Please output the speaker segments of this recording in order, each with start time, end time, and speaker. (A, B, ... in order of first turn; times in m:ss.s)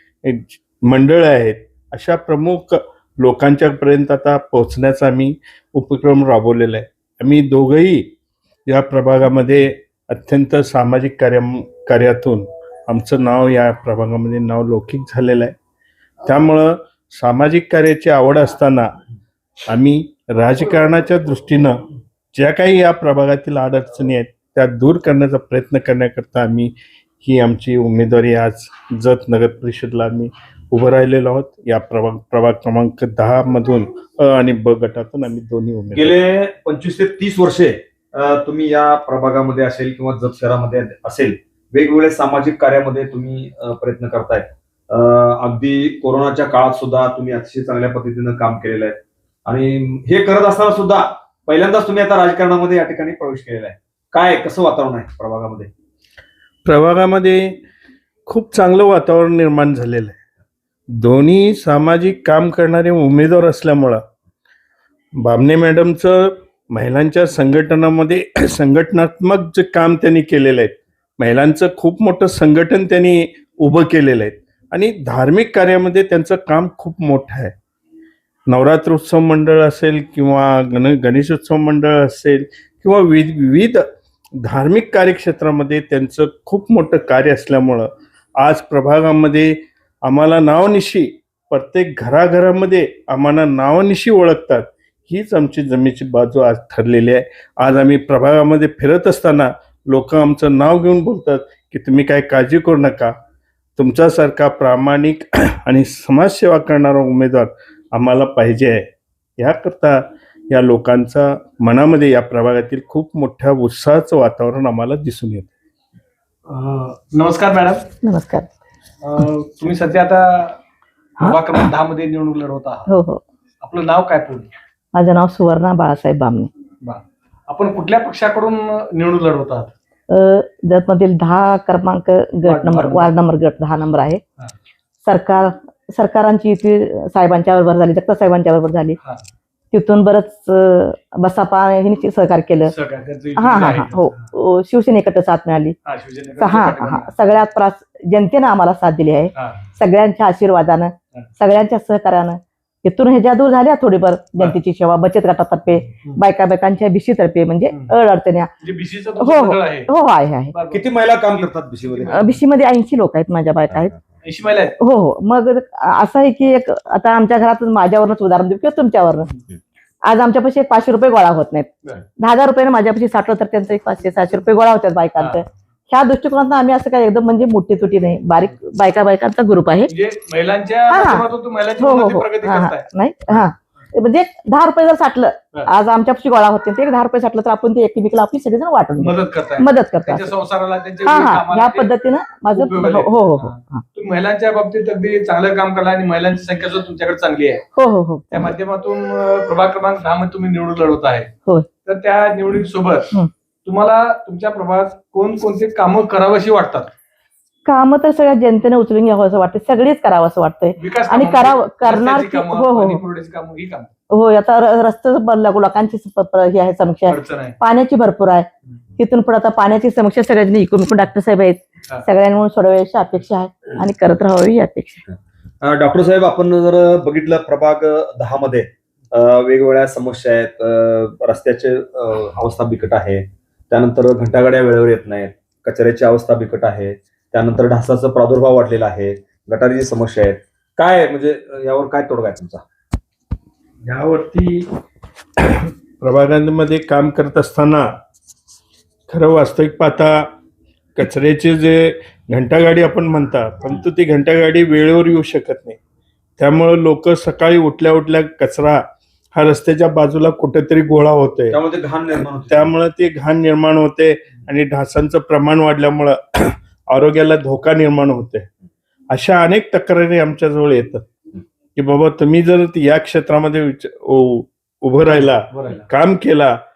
0:00.2-0:08.1 A
0:08.7-0:15.5 A
0:16.2-0:18.9 A
0:19.7-0:21.8 A
0:22.3-0:36.2 A
0:35.9-0:55.7 B
0:56.6-0:57.5 A
0:58.3-1:00.2 A
1:01.0-1:04.0 A
1:05.2-1:17.5 A
1:18.5-1:23.8 A
1:24.4-1:43.1 A
1:43.8-1:48.9 A
1:49.4-1:55.5 A
1:56.5-1:57.8 C
1:58.0-1:58.5 D
1:59.0-2:00.6 C
2:01.2-2:02.9 C
2:02.9-2:03.2 D
2:03.6-2:04.5 C
2:04.9-2:06.5 D
2:06.8-2:09.7 C
2:10.1-2:14.2 D
2:12.4-2:13.1 C
2:15.0-2:19.0 D
2:19.7-2:22.7 D
2:22.7-2:24.2 C
2:23.4-2:25.8 D
2:25.8-2:27.1 C
2:26.4-2:38.5 D
2:29.3-2:29.6 C
2:37.7-2:37.9 C
2:38.6-2:39.9 C
2:39.2-2:40.5 D
2:40.5-2:42.4 C
2:40.7-2:42.2 B
2:42.1-2:43.9 D
2:44.2-2:44.8 C
2:44.8-2:49.3 D
2:50.0-2:59.9 D
2:55.2-2:55.4 C
2:59.9-3:03.5 C
3:00.9-3:01.2 D
3:01.8-3:10.3 D
3:09.0-3:11.9 C
3:11.0-3:13.8 D
3:12.5-3:17.6 C
3:17.7-3:18.5 D
3:18.3-3:21.3 C
3:21.8-3:23.1 C
3:23.6-3:26.9 C
3:27.6-3:33.0 D
3:30.8-3:33.9 C
3:34.1-3:45.0 D
3:37.1-3:37.6 C
3:45.6-4:02.6 B
4:03.8-4:04.7 A
4:05.4-4:07.8 A
4:09.1-4:10.2 A
4:11.0-4:15.8 A
4:16.4-4:18.8 A
4:19.3-4:21.6 A
4:21.5-4:22.7 B
4:22.5-4:28.5 A
4:29.1-4:31.0 A
4:31.8-4:36.6 A
4:35.1-4:35.9 C